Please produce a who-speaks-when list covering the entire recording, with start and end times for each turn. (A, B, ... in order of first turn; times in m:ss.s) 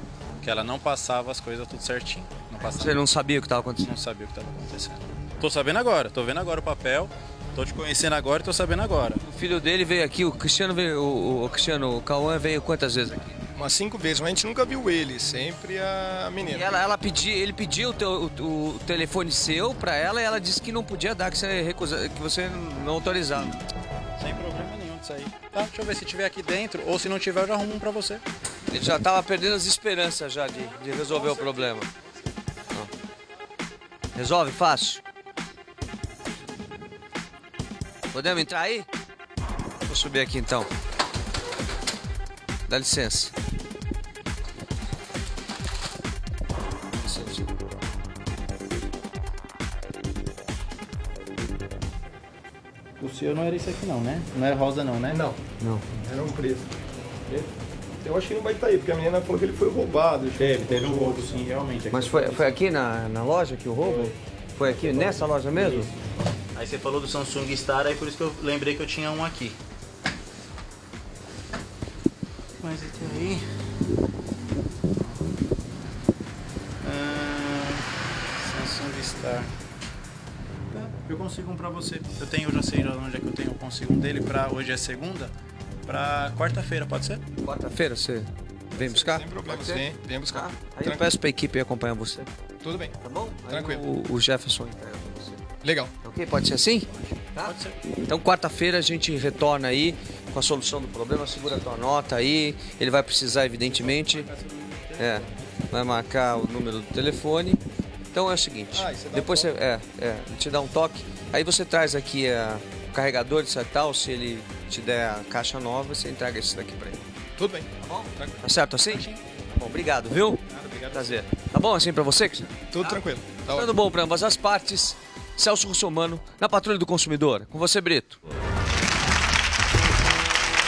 0:00.4-0:03.0 A
0:02.8-0:03.9 B
0:03.8-0:09.2 A
0:09.2-0:13.3 B
0:13.5-0:16.8 C
0:16.5-0:23.6 B
0:24.2-0:28.2 A
0:28.7-0:31.9 B
0:34.2-0:35.0 B
0:38.1-0:38.9 B
0:39.9-0:40.7 B
0:42.7-0:43.3 B
0:47.0-0:47.5 B
0:53.0-0:55.2 A
0:55.1-0:55.4 C
0:55.6-0:55.8 B
0:56.0-0:56.7 C
0:58.0-1:01.4 C
1:00.4-1:02.6 A
1:01.9-1:05.9 B
1:05.1-1:05.9 A
1:06.5-1:09.6 A
1:12.6-1:13.4 A
1:16.8-1:17.8 A
1:18.4-1:19.5 A
1:20.7-1:25.3 A
1:25.9-1:27.2 A
1:27.4-1:32.3 B
1:28.8-1:31.1 C
1:32.6-1:32.9 C
1:33.0-1:35.4 B
1:33.5-1:33.9 C
1:35.6-1:35.9 C
1:36.0-1:44.3 B
1:37.4-1:37.8 A
1:43.7-1:45.3 A
1:45.0-1:47.6 B
1:48.1-1:57.0 B
1:48.7-1:49.6 C
1:57.4-1:58.4 C
1:57.8-2:00.4 B
1:58.9-1:59.2 A
2:00.5-2:01.2 A
2:00.9-2:08.2 B
2:02.7-2:03.8 C